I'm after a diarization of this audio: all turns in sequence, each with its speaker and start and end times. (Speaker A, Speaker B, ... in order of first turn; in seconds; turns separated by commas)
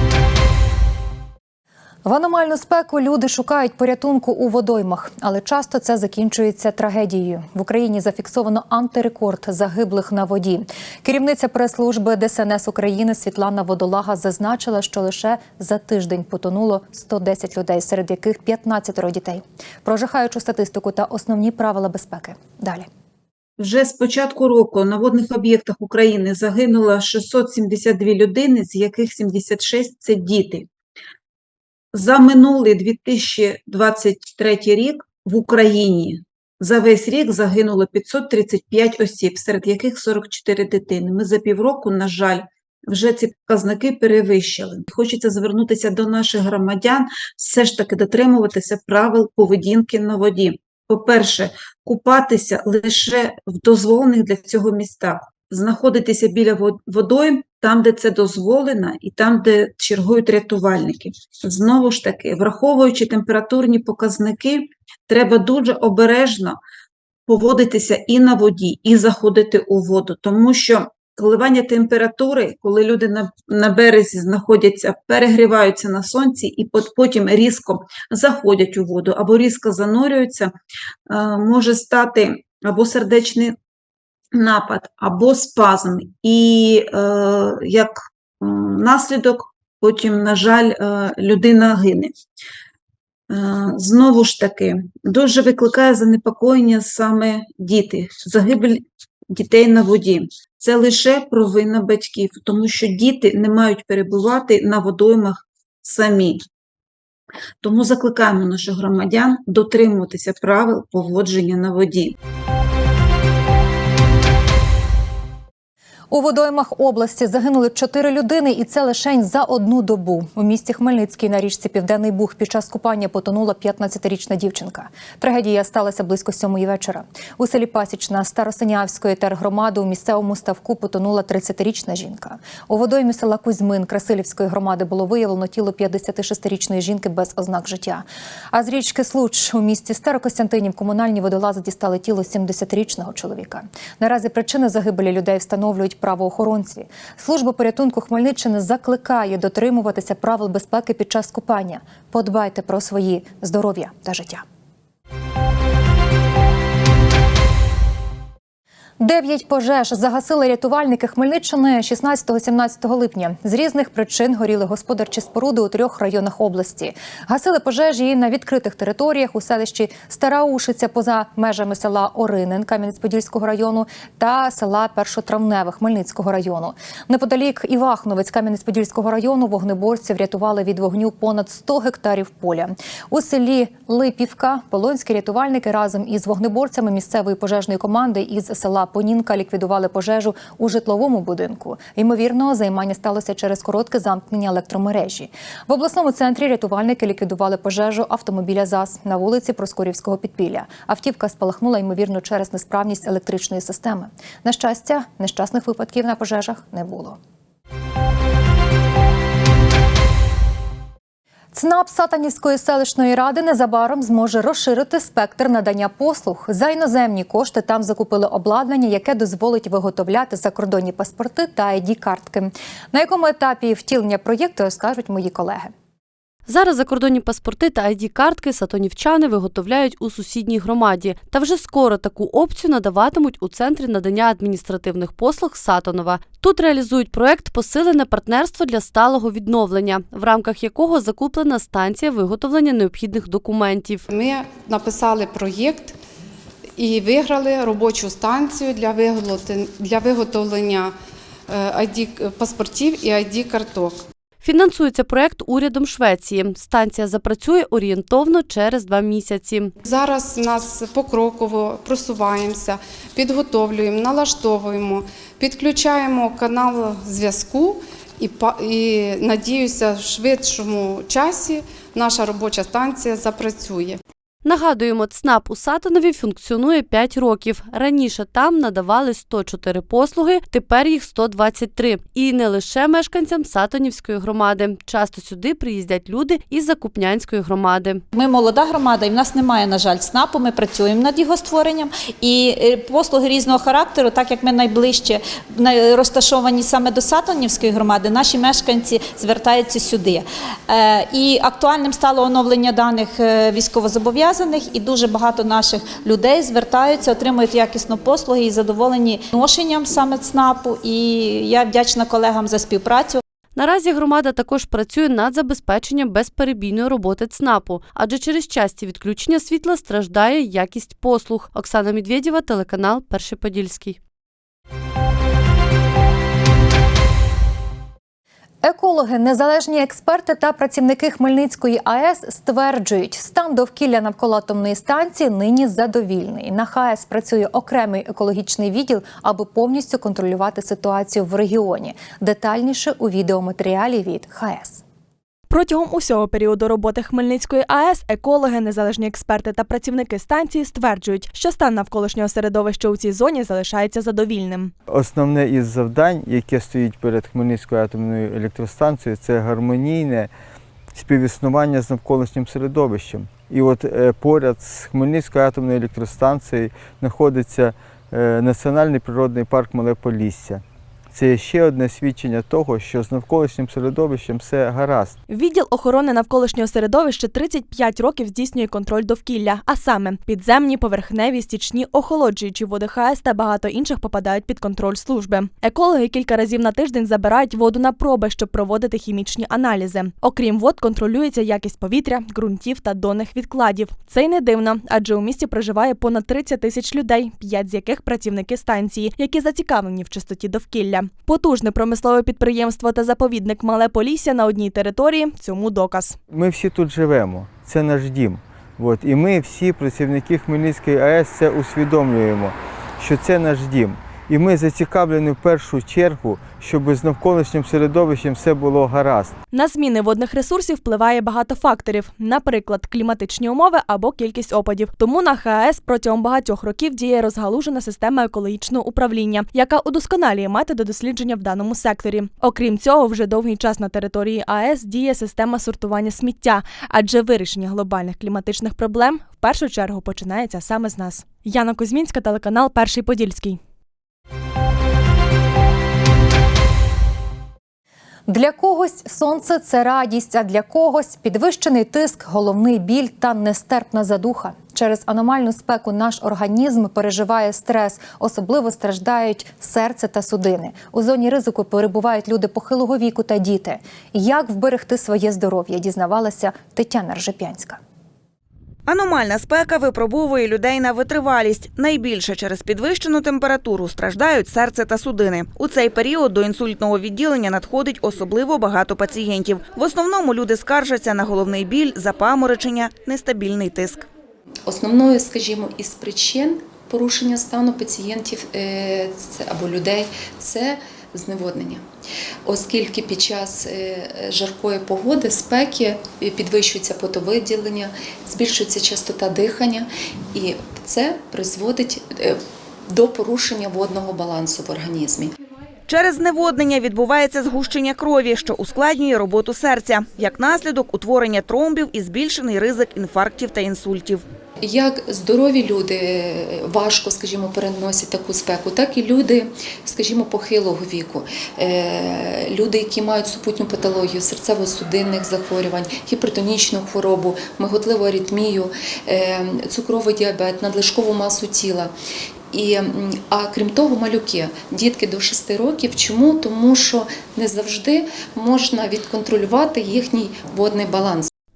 Speaker A: 2.0-22.9, Speaker B: 23.6-30.6, Speaker B: 31.9-66.6, Speaker B: 67.3-80.5, Speaker B: 81.1-83.5, Speaker B: 84.3-92.1, Speaker B: 93.3-106.4, Speaker B: 107.6-112.1, Speaker A: 116.1-154.4, Speaker A: 159.0-207.2, Speaker A: 211.5-225.7, Speaker C: 226.5-244.0, Speaker D: 244.1-245.9, Speaker D: 246.8-250.9, Speaker D: 251.5-253.9, Speaker C: 254.4-259.7, Speaker D: 259.8-274.0, Speaker C: 274.4-288.0, Speaker E: 288.1-313.2, Speaker C: 313.5-324.0, Speaker A: 328.6-344.8, Speaker F: 345.5-354.7, Speaker G: 354.9-360.3, Speaker G: 360.9-375.2, Speaker F: 375.3-406.2, Speaker G: 406.3-419.3, Speaker F: 419.5-443.6, Speaker A: 448.3-467.8, Speaker H: 468.9-484.1, Speaker I: 484.7-491.8, Speaker I: 492.5-502.4, Speaker I: 502.9-505.3, Speaker H: 505.9-514.2, Speaker I: 514.6-531.9, Speaker I: 532.5-541.3